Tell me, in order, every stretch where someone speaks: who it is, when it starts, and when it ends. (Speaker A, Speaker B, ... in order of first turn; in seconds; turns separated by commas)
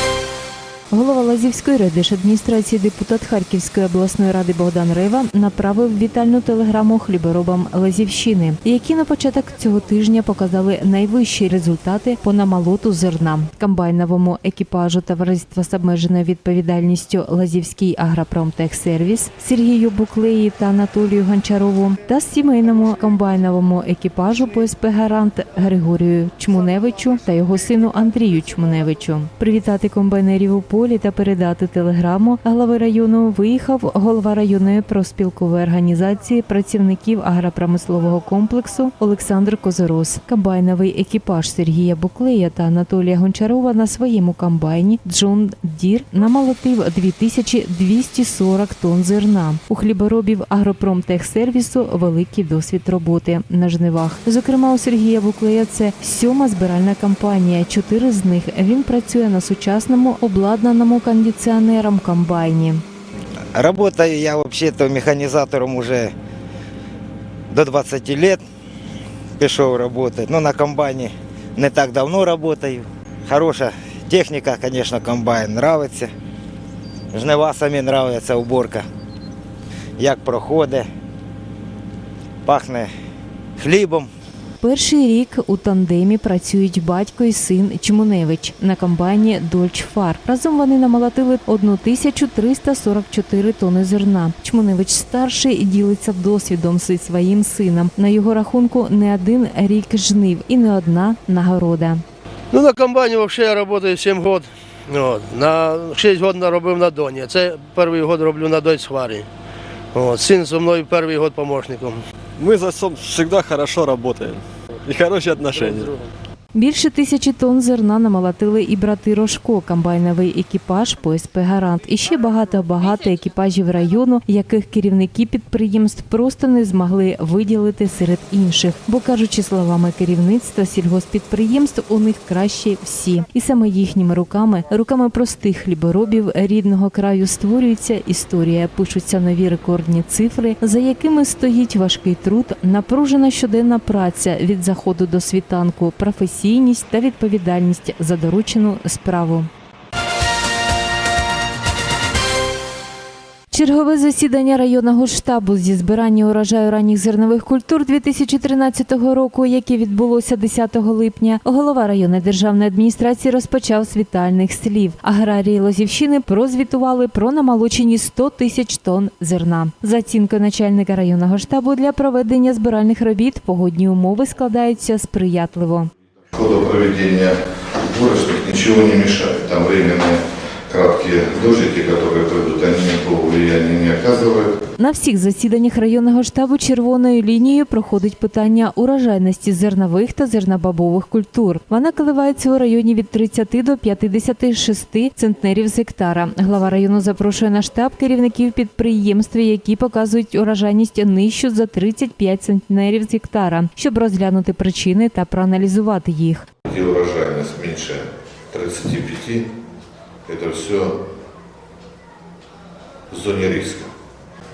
Speaker A: 0.9-62.8, Speaker B: 63.5-66.1, Speaker B: 67.5-68.4, Speaker B: 69.4-76.1, Speaker B: 77.1-78.9, Speaker B: 80.0-80.9, Speaker B: 82.5-82.9, Speaker B: 83.6-84.1, Speaker A: 84.6-102.0, Speaker C: 102.5-109.3, Speaker C: 109.9-112.0, Speaker D: 112.4-115.9, Speaker A: 116.5-149.5, Speaker A: 153.5-175.9, Speaker E: 176.3-184.6, Speaker A: 184.8-206.5, Speaker E: 206.7-209.5, Speaker E: 210.3-211.0, Speaker E: 213.1-213.9